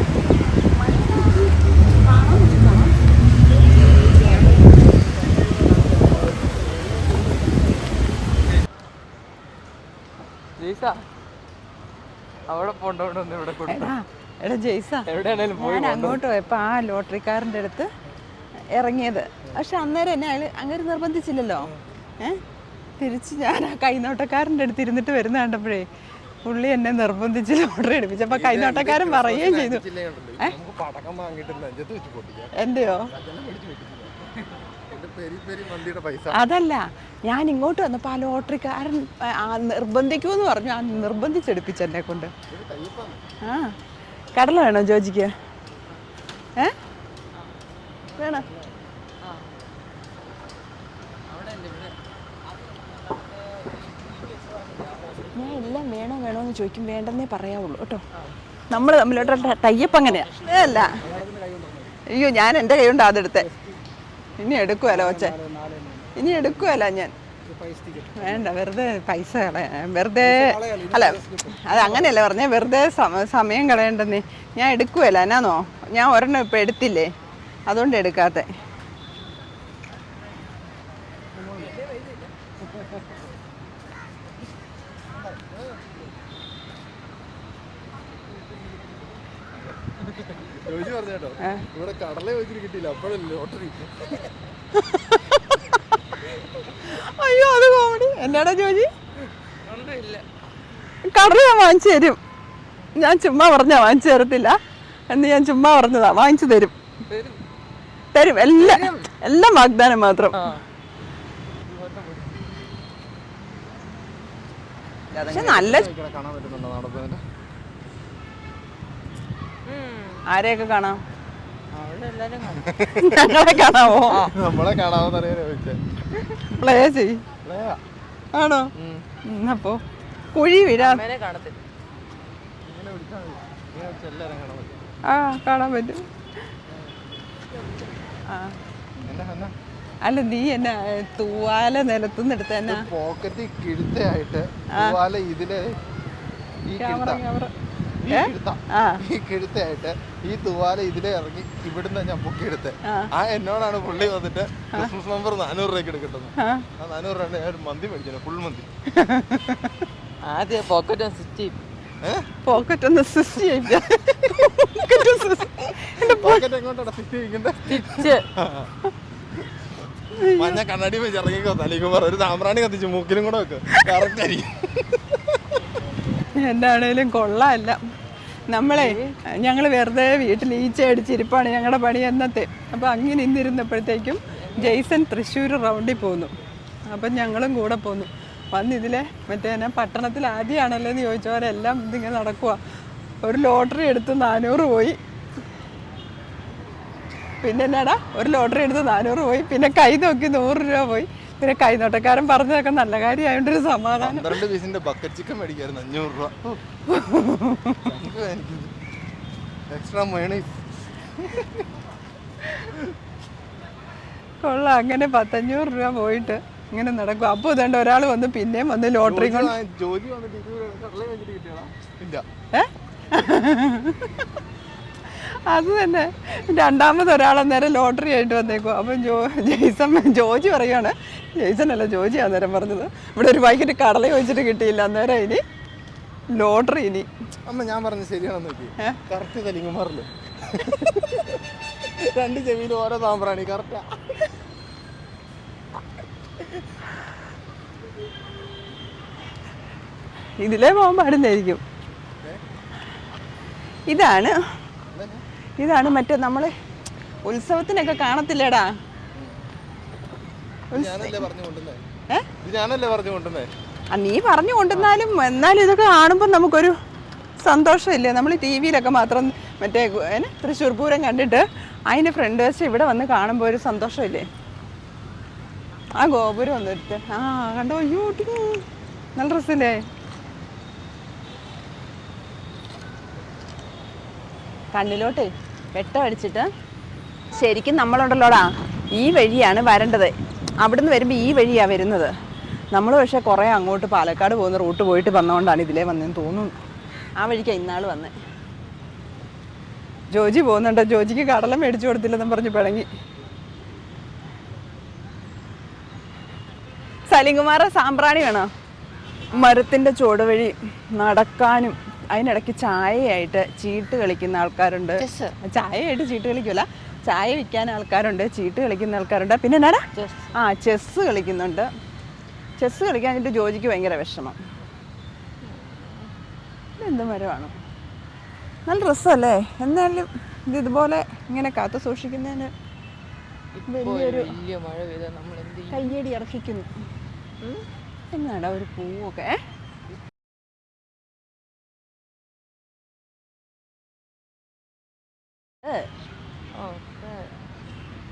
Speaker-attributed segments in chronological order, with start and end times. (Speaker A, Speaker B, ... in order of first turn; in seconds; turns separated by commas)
Speaker A: 0.8-3.0, Speaker B: 10.6-11.0, Speaker B: 12.5-13.9, Speaker A: 13.7-17.9, Speaker B: 15.1-16.2, Speaker A: 18.8-22.4, Speaker A: 23.0-25.9, Speaker A: 26.4-29.8, Speaker C: 28.3-32.5, Speaker A: 32.5-33.1, Speaker C: 33.1-34.2, Speaker C: 34.9-36.4, Speaker A: 36.3-42.3, Speaker C: 42.5-43.2, Speaker A: 43.4-43.7, Speaker A: 44.4-45.3, Speaker A: 48.1-48.5, Speaker C: 48.2-48.8, Speaker B: 51.3-51.9, Speaker A: 55.3-58.0, Speaker A: 58.7-61.0, Speaker C: 60.7-61.9, Speaker A: 62.1-63.5, Speaker A: 64.4-65.4, Speaker C: 64.9-66.8, Speaker A: 66.2-67.1, Speaker C: 67.4-68.5, Speaker A: 68.2-77.1, Speaker C: 70.2-72.2, Speaker A: 77.7-78.5, Speaker C: 81.4-81.7, Speaker C: 85.4-85.9, Speaker C: 90.2-94.1, Speaker A: 91.4-91.7, Speaker A: 94.7-96.0, Speaker A: 96.8-98.9, Speaker B: 99.6-100.2, Speaker A: 101.0-102.2, Speaker A: 102.9-104.6, Speaker A: 105.1-106.7, Speaker B: 107.1-107.4, Speaker A: 108.1-110.5, Speaker B: 108.5-109.1, Speaker B: 110.3-110.6, Speaker B: 111.7-112.4, Speaker C: 115.1-117.2, Speaker A: 115.2-115.9, Speaker B: 119.7-120.2, Speaker A: 120.3-121.0, Speaker B: 121.7-122.8, Speaker A: 123.0-124.2, Speaker B: 124.1-124.3, Speaker C: 124.3-125.8, Speaker A: 126.3-127.2, Speaker C: 127.4-127.8, Speaker A: 128.3-128.7, Speaker B: 128.8-129.0, Speaker A: 129.2-129.8, Speaker A: 130.3-131.0, Speaker B: 130.8-131.6, Speaker C: 132.6-134.9, Speaker A: 135.1-136.1, Speaker C: 136.7-137.0, Speaker A: 138.3-138.6, Speaker C: 139.1-139.5, Speaker A: 140.0-142.9, Speaker C: 142.7-145.8, Speaker C: 146.6-147.2, Speaker A: 146.8-147.5, Speaker C: 148.0-158.7, Speaker A: 148.1-149.0, Speaker A: 152.8-153.1, Speaker A: 156.4-156.7, Speaker A: 158.9-159.8, Speaker B: 160.2-161.6, Speaker C: 162.0-162.3, Speaker A: 162.4-166.4, Speaker C: 166.0-168.7, Speaker B: 167.7-168.2, Speaker A: 170.1-170.6, Speaker C: 170.2-175.4, Speaker A: 176.4-177.8, Speaker A: 178.5-186.3, Speaker B: 178.7-179.1, Speaker B: 184.4-184.7, Speaker A: 186.9-192.6, Speaker A: 193.2-195.0, Speaker A: 197.4-204.4, Speaker C: 204.0-206.6, Speaker A: 206.9-207.9, Speaker C: 207.8-208.7, Speaker C: 209.7-210.6, Speaker C: 211.2-211.6, Speaker A: 214.4-219.5, Speaker C: 219.0-222.2, Speaker A: 222.5-224.0, Speaker A: 225.2-235.4, Speaker A: 236.3-237.1, Speaker C: 237.4-241.2, Speaker C: 242.0-244.0, Speaker A: 250.4-251.6, Speaker A: 253.9-254.3, Speaker C: 254.9-255.2, Speaker A: 255.6-256.5, Speaker A: 257.2-258.7, Speaker A: 260.7-261.2, Speaker C: 260.7-261.8, Speaker C: 262.4-263.5, Speaker A: 263.9-266.7, Speaker A: 267.4-274.3, Speaker A: 276.0-278.6, Speaker A: 279.2-279.8, Speaker A: 284.7-286.5, Speaker A: 287.4-292.1, Speaker A: 292.7-296.5, Speaker A: 297.2-298.1, Speaker A: 300.1-302.9, Speaker A: 307.1-308.5, Speaker A: 309.3-321.7, Speaker B: 315.0-315.3, Speaker B: 319.9-320.3, Speaker A: 322.6-324.4, Speaker B: 325.4-326.1, Speaker A: 326.8-327.5, Speaker A: 328.7-332.5, Speaker B: 333.5-335.9, Speaker A: 333.7-334.3, Speaker A: 335.7-336.7, Speaker A: 338.1-339.4, Speaker B: 346.5-347.3